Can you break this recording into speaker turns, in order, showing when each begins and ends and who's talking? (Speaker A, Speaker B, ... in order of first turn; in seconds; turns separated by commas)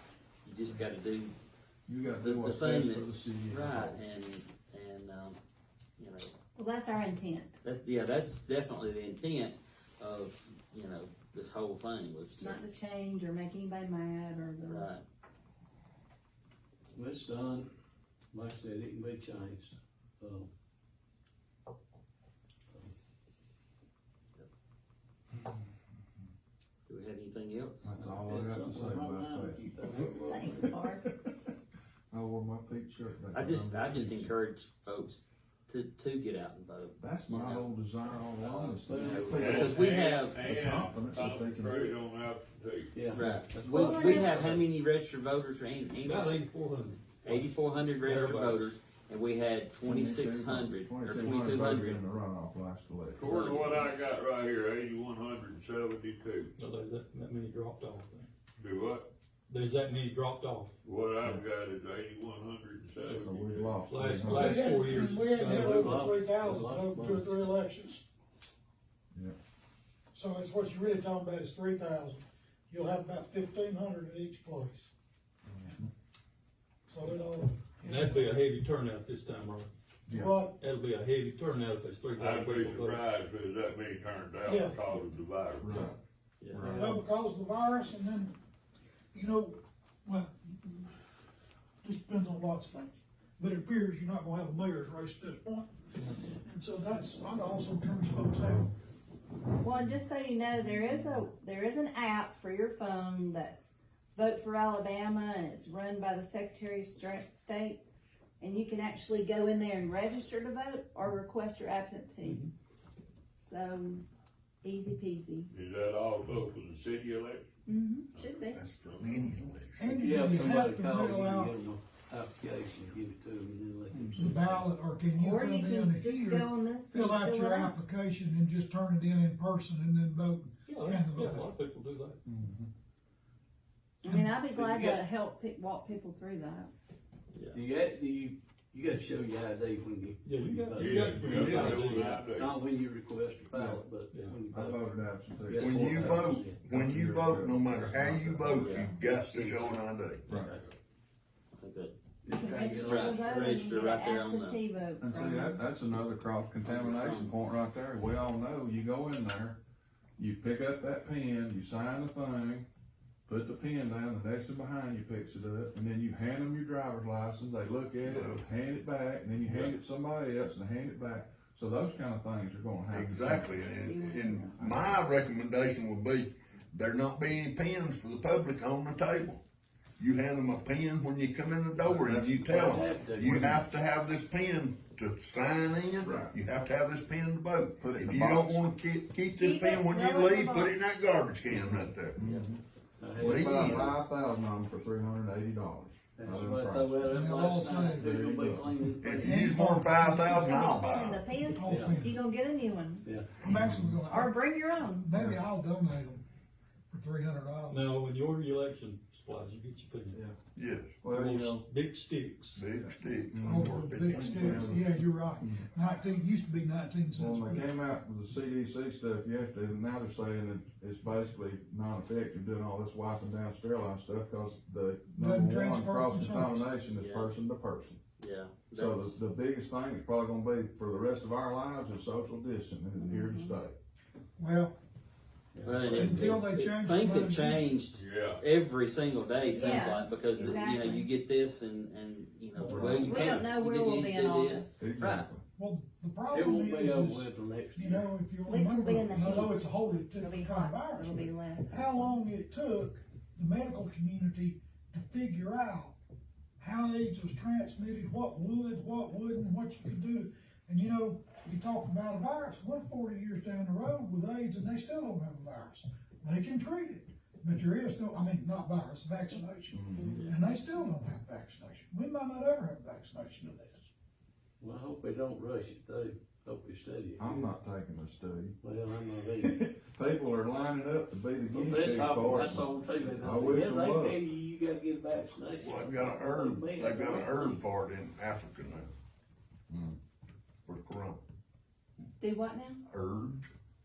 Speaker A: 0.4-1.3, Speaker B: 1.9-4.0, Speaker A: 2.1-5.4, Speaker A: 6.0-6.3, Speaker C: 6.5-7.5, Speaker A: 7.6-12.6, Speaker C: 12.4-14.9, Speaker A: 14.6-15.0, Speaker D: 16.9-17.7, Speaker D: 18.3-20.5, Speaker A: 26.9-27.9, Speaker B: 27.8-31.3, Speaker D: 28.0-30.8, Speaker C: 30.2-31.1, Speaker B: 32.1-34.3, Speaker A: 33.3-40.4, Speaker B: 37.0-42.0, Speaker D: 38.9-39.7, Speaker E: 39.3-43.1, Speaker D: 42.9-44.7, Speaker A: 43.1-46.4, Speaker C: 43.8-44.4, Speaker F: 46.0-48.7, Speaker A: 47.2-52.0, Speaker B: 49.8-53.3, Speaker E: 53.1-56.5, Speaker A: 53.2-53.9, Speaker F: 56.6-58.3, Speaker E: 58.6-59.1, Speaker F: 59.5-60.7, Speaker E: 60.8-63.8, Speaker B: 63.0-64.8, Speaker F: 63.9-66.1, Speaker G: 64.2-68.0, Speaker D: 65.4-67.5, Speaker G: 70.1-74.9, Speaker B: 75.5-75.9, Speaker G: 76.9-78.5, Speaker F: 77.8-79.7, Speaker B: 80.1-80.3, Speaker G: 80.1-80.6, Speaker F: 80.6-83.0, Speaker E: 82.2-86.0, Speaker G: 84.4-84.8, Speaker B: 85.6-86.0, Speaker B: 86.5-87.0, Speaker G: 86.6-88.3, Speaker G: 89.1-90.9, Speaker G: 91.8-98.7, Speaker C: 99.6-107.8, Speaker C: 108.4-112.5, Speaker C: 113.4-114.0, Speaker C: 114.6-115.5, Speaker E: 115.5-117.4, Speaker C: 117.7-118.6, Speaker H: 118.5-119.9, Speaker E: 118.8-119.3, Speaker G: 119.8-121.5, Speaker D: 119.9-124.7, Speaker B: 123.9-124.2, Speaker G: 124.2-131.5, Speaker C: 125.1-127.7, Speaker F: 130.7-132.2, Speaker B: 132.2-132.7, Speaker C: 134.0-136.7, Speaker G: 134.0-134.4, Speaker D: 134.4-135.1, Speaker A: 137.3-137.6, Speaker D: 137.5-144.9, Speaker F: 140.2-142.2, Speaker E: 140.7-142.6, Speaker A: 141.4-142.2, Speaker B: 143.5-143.8, Speaker F: 144.1-144.4, Speaker B: 144.5-148.8, Speaker D: 145.4-146.6, Speaker H: 145.6-150.2, Speaker D: 148.5-150.8, Speaker A: 148.6-148.9, Speaker B: 150.3-150.5, Speaker A: 151.6-151.9, Speaker D: 152.2-153.6, Speaker C: 152.3-155.6, Speaker A: 152.7-154.6, Speaker B: 155.0-159.6, Speaker A: 156.6-157.3, Speaker B: 160.2-162.7, Speaker B: 163.2-173.5, Speaker H: 168.0-168.4, Speaker E: 169.4-169.7, Speaker H: 172.9-179.4, Speaker C: 173.5-174.6, Speaker B: 174.6-175.0, Speaker H: 180.0-192.2, Speaker B: 181.8-182.5, Speaker D: 182.3-183.7, Speaker B: 186.0-186.3, Speaker B: 187.8-188.7, Speaker C: 189.4-190.8, Speaker B: 192.2-192.6, Speaker D: 193.0-193.9, Speaker B: 193.2-197.1, Speaker H: 193.3-193.9, Speaker D: 196.2-199.4, Speaker G: 197.0-198.2, Speaker B: 198.0-198.9, Speaker H: 199.0-201.3, Speaker G: 199.2-200.7, Speaker C: 200.3-203.1, Speaker G: 201.5-202.2, Speaker D: 201.7-202.0, Speaker D: 203.0-203.3, Speaker G: 203.4-204.4, Speaker B: 203.4-204.2, Speaker C: 204.1-205.1, Speaker G: 205.0-206.2, Speaker G: 206.9-207.9, Speaker F: 207.7-210.2, Speaker B: 210.1-210.4, Speaker H: 210.6-211.0, Speaker B: 211.0-211.6, Speaker F: 211.0-212.7, Speaker H: 212.6-214.8, Speaker B: 213.3-215.7, Speaker G: 213.4-217.7, Speaker B: 217.1-228.0, Speaker G: 225.1-226.7, Speaker A: 227.0-227.3, Speaker A: 228.2-229.2, Speaker B: 228.7-233.7, Speaker C: 233.0-233.6, Speaker G: 234.4-234.8, Speaker D: 235.5-236.4, Speaker A: 235.6-245.3, Speaker G: 235.8-237.7, Speaker E: 237.9-238.4, Speaker C: 239.5-241.1, Speaker D: 242.6-243.4, Speaker B: 242.7-243.4, Speaker C: 243.0-244.7, Speaker B: 244.8-245.4, Speaker G: 245.6-255.9, Speaker D: 246.3-248.2, Speaker C: 248.4-252.1, Speaker G: 256.6-273.9, Speaker B: 269.7-270.2, Speaker C: 269.9-270.4, Speaker A: 270.1-270.3, Speaker D: 274.6-277.5, Speaker B: 277.2-278.6, Speaker D: 278.6-279.6, Speaker B: 279.4-282.7, Speaker D: 281.5-287.6, Speaker B: 283.2-284.2, Speaker H: 285.6-288.9, Speaker B: 289.7-289.9, Speaker H: 290.6-291.2, Speaker C: 292.2-292.8, Speaker H: 292.9-293.4